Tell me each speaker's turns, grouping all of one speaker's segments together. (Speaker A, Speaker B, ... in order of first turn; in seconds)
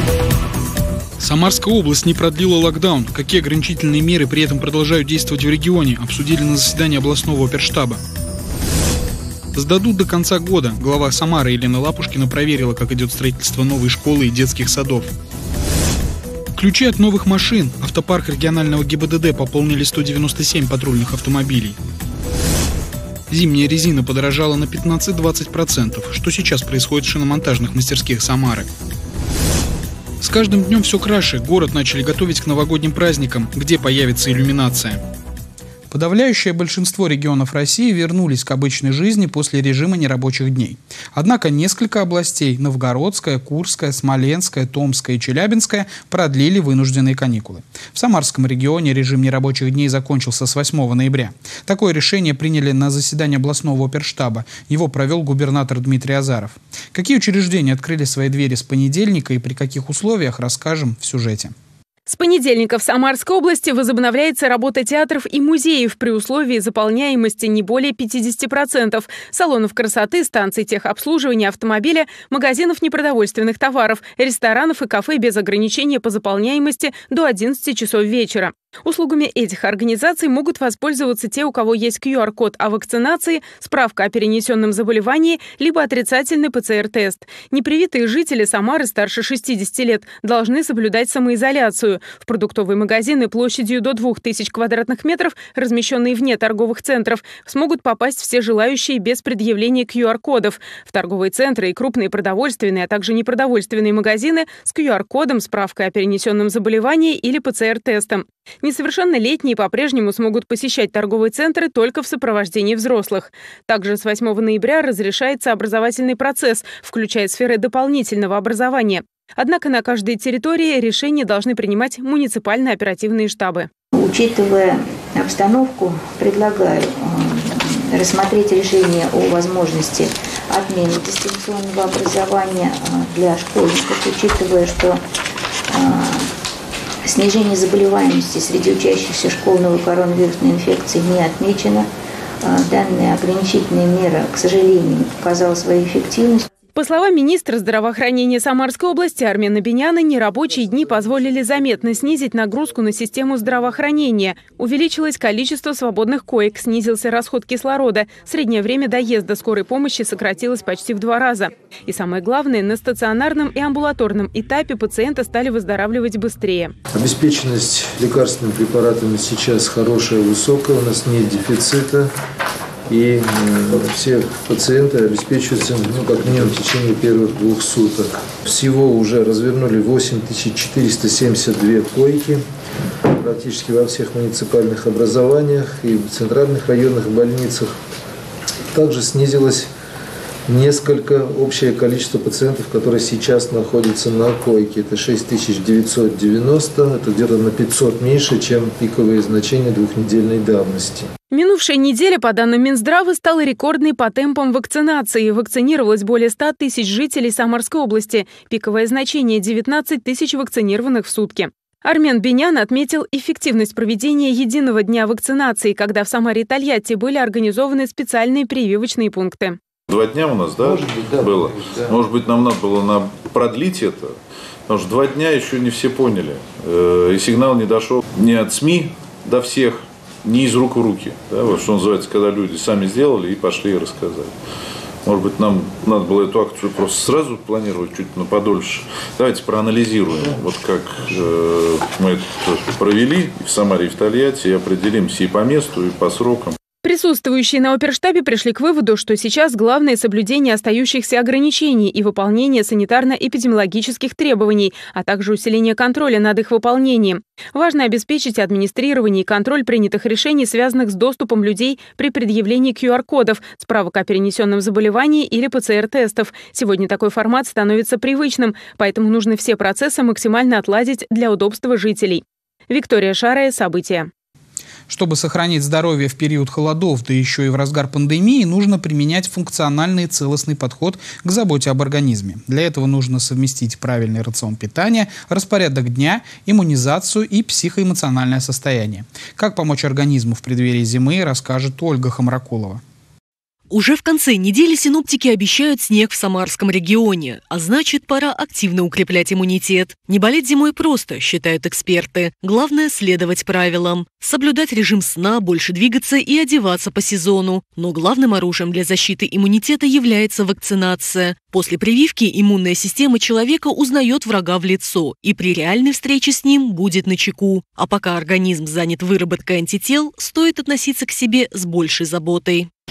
Speaker A: 1.2-8.0, 9.5-15.1, 16.6-21.8, 23.3-28.7, 30.2-35.0, 35.9-61.5, 274.9-292.8
Speaker B: 62.1-123.7, 146.8-166.7, 201.3-219.6, 246.8-274.1
Speaker C: 124.0-135.0, 135.7-136.3, 137.1-141.9, 142.4-146.5
Speaker D: 166.9-172.1, 172.9-182.4, 183.1-187.7, 188.7-189.7, 190.5-201.1, 220.6-221.3
Speaker E: 219.9-224.1, 224.7-234.3, 235.1-246.6
Speaker F: 293.7-322.7